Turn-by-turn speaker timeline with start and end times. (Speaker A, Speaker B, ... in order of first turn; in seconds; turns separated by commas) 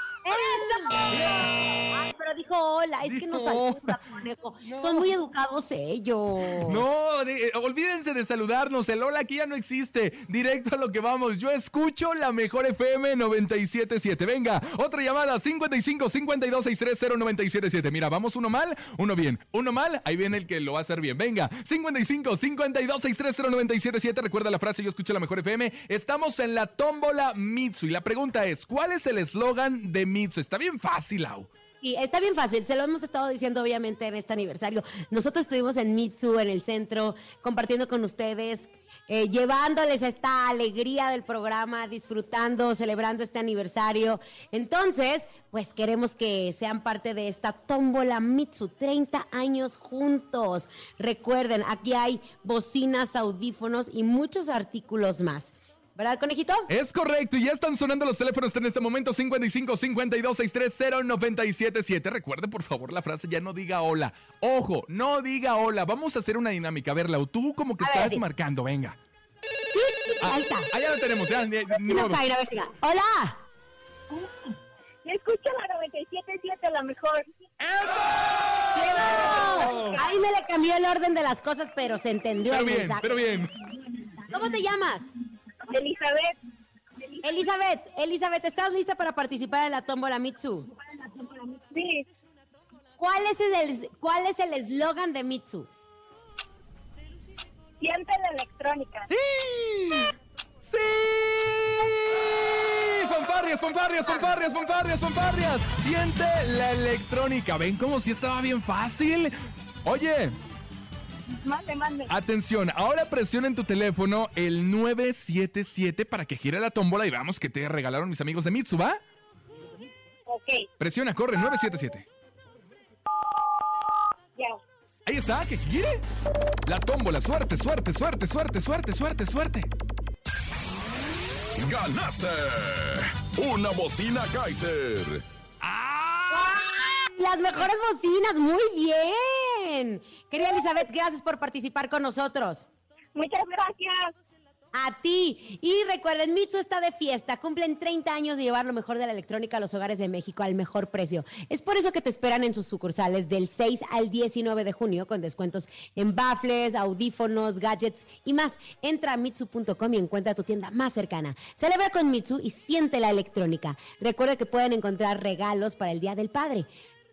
Speaker A: 0.2-6.8, Speaker B: 1.1-1.6, Speaker B: 3.0-4.0, Speaker B: 4.7-5.1, Speaker B: 6.6-31.5, Speaker A: 31.8-56.7, Speaker B: 56.7-69.0, Speaker A: 67.8-68.2, Speaker A: 69.7-70.7, Speaker B: 70.2-72.2, Speaker A: 71.7-73.4, Speaker C: 75.0-77.3, Speaker B: 77.6-80.0, Speaker C: 78.7-80.0, Speaker A: 78.8-83.2, Speaker B: 82.5-83.5, Speaker A: 84.3-85.1, Speaker C: 85.6-86.4, Speaker C: 87.0-87.4, Speaker A: 87.2-90.7, Speaker C: 90.8-92.0, Speaker A: 93.0-95.7, Speaker C: 97.8-99.1, Speaker B: 99.1-100.1, Speaker B: 100.6-110.4, Speaker C: 111.4-112.1, Speaker B: 112.1-119.0, Speaker C: 120.3-120.7, Speaker B: 120.8-122.1, Speaker B: 125.1-126.0, Speaker B: 126.7-129.7, Speaker D: 131.6-135.2, Speaker B: 135.6-137.1, Speaker A: 136.3-142.7, Speaker C: 143.1-144.1, Speaker A: 144.7-166.7